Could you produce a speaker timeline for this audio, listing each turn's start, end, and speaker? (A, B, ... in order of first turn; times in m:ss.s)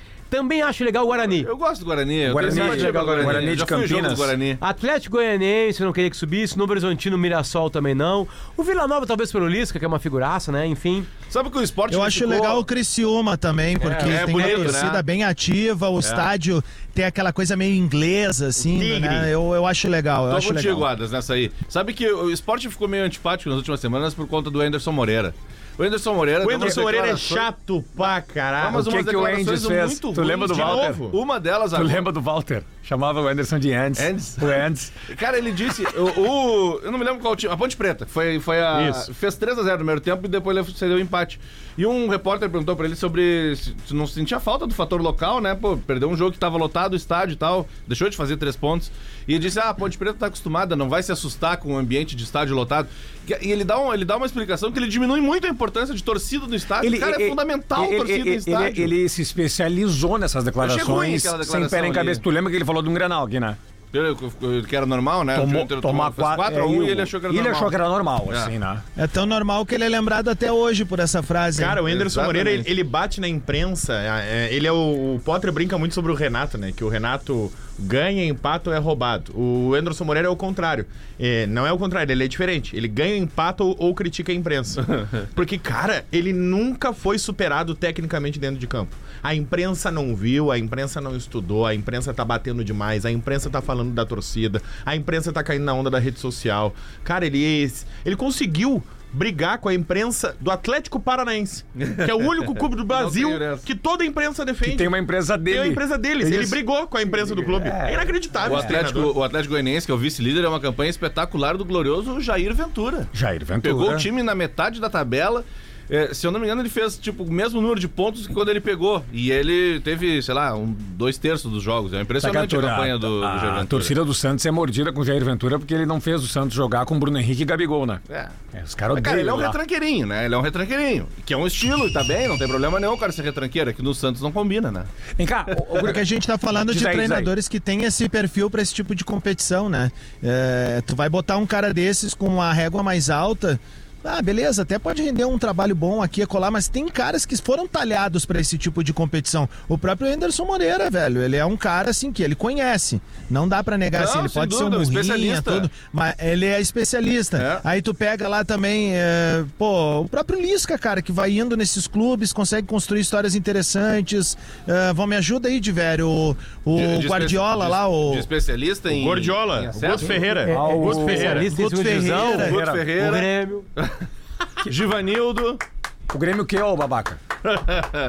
0:00.3-0:01.5 A
0:01.3-0:04.6 B
0:02.2-0:04.3 C
0:02.4-0:03.6 A
0:04.6-0:11.1 A
0:11.3-0:12.6 B
0:11.9-0:20.9 D
0:13.8-0:15.0 B
0:14.3-0:14.8 A
0:16.0-0:16.3 B
0:18.6-0:19.3 E
0:20.3-0:27.5 B
0:26.4-0:28.8 E
0:28.6-0:32.0 B
0:28.6-0:31.0 C
0:30.4-0:31.2 E
0:31.7-0:34.9 C
0:34.0-0:34.6 B
0:35.1-0:58.9 B
0:56.8-1:03.6 C
1:00.6-1:02.2 B
1:03.9-1:07.8 B
1:05.3-1:08.8 C
1:09.0-1:11.8 D
1:11.6-1:44.9 E
1:11.9-1:12.7 B
1:41.8-1:43.7 B
1:44.6-1:46.6 C
1:45.5-1:49.1 E
1:47.2-1:48.8 C
1:48.4-1:53.1 B
1:53.1-1:54.1 C
1:53.6-2:03.9 B
2:02.2-2:08.0 C
2:08.1-2:08.3 B
2:08.5-2:09.6 C
2:08.9-2:14.9 B
2:15.2-2:16.0 C
2:15.8-2:48.2 D
2:16.6-2:17.3 C
2:33.9-2:35.7 B
2:37.4-2:37.6 B
2:46.8-2:50.3 B
2:48.9-2:51.5 E
2:50.5-2:53.6 A
2:50.5-2:51.5 C
2:51.1-2:52.6 D
2:52.3-2:52.8 C
2:52.5-2:54.0 B
2:54.6-2:55.6 B
2:56.1-2:57.2 C